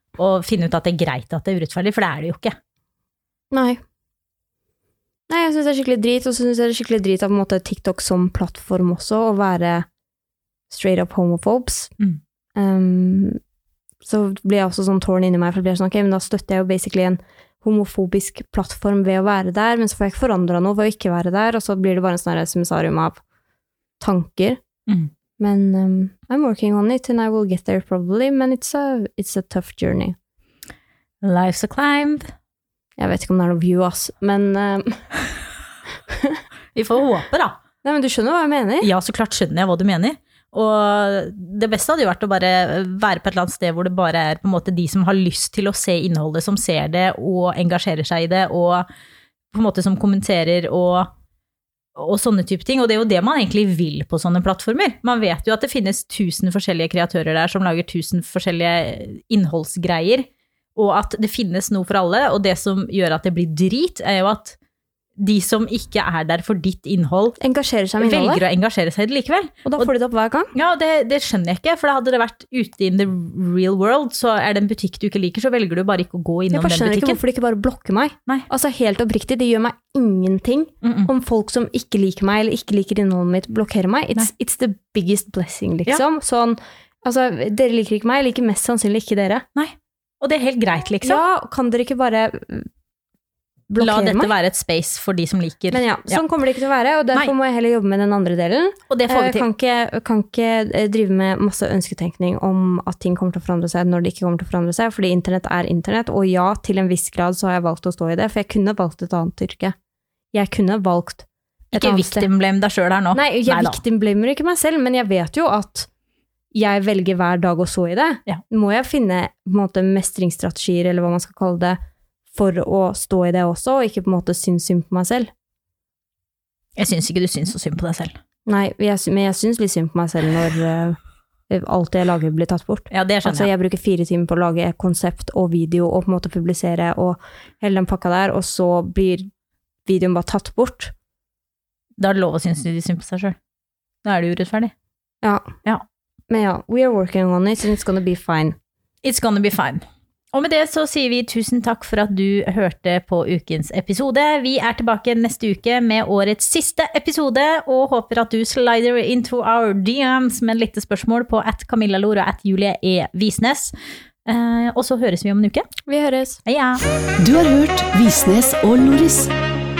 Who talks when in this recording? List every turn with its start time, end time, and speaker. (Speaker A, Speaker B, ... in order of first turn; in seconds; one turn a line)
Speaker A: 0.2-2.5
Speaker B: 3.5-3.8
Speaker B: 5.3-9.9
Speaker B: 10.7-11.9
Speaker B: 12.6-13.4
Speaker B: 14.0-23.2
Speaker B: 24.0-24.6
Speaker B: 25.4-30.1
Speaker A: 31.2-32.3
Speaker B: 33.0-35.0
Speaker B: 36.1-36.4
Speaker A: 36.7-37.6
Speaker B: 37.8-38.9
Speaker A: 38.8-48.9
Speaker A: 49.5-51.1
Speaker A: 52.0-64.5
Speaker A: 65.2-67.4
Speaker B: 67.4-68.4
Speaker A: 68.0-69.9
Speaker B: 69.7-70.5
Speaker A: 70.5-77.2
Speaker B: 76.5-89.5
Speaker A: 80.8-81.1
Speaker A: 89.5-91.2
Speaker B: 91.0-92.7
Speaker B: 93.7-94.3
Speaker A: 93.8-96.2
Speaker B: 95.7-109.7
Speaker A: 98.9-99.5
Speaker B: 110.3-112.3
Speaker A: 111.7-113.8
Speaker B: 113.1-115.9
Speaker B: 116.5-121.8
Speaker B: 122.3-125.3
Speaker A: 126.8-128.1
Speaker B: 128.5-131.0
Speaker B: 131.5-139.3
Speaker A: 132.9-133.5
Speaker B: 139.8-140.9
Speaker A: 142.0-143.3
Speaker A: 144.0-144.7
Speaker B: 145.2-145.5
Speaker B: 146.3-148.6
Speaker A: 149.0-163.7
Speaker A: 164.2-165.7
Speaker B: 165.9-166.4
Speaker A: 166.4-166.8
Speaker C: 167.2-169.3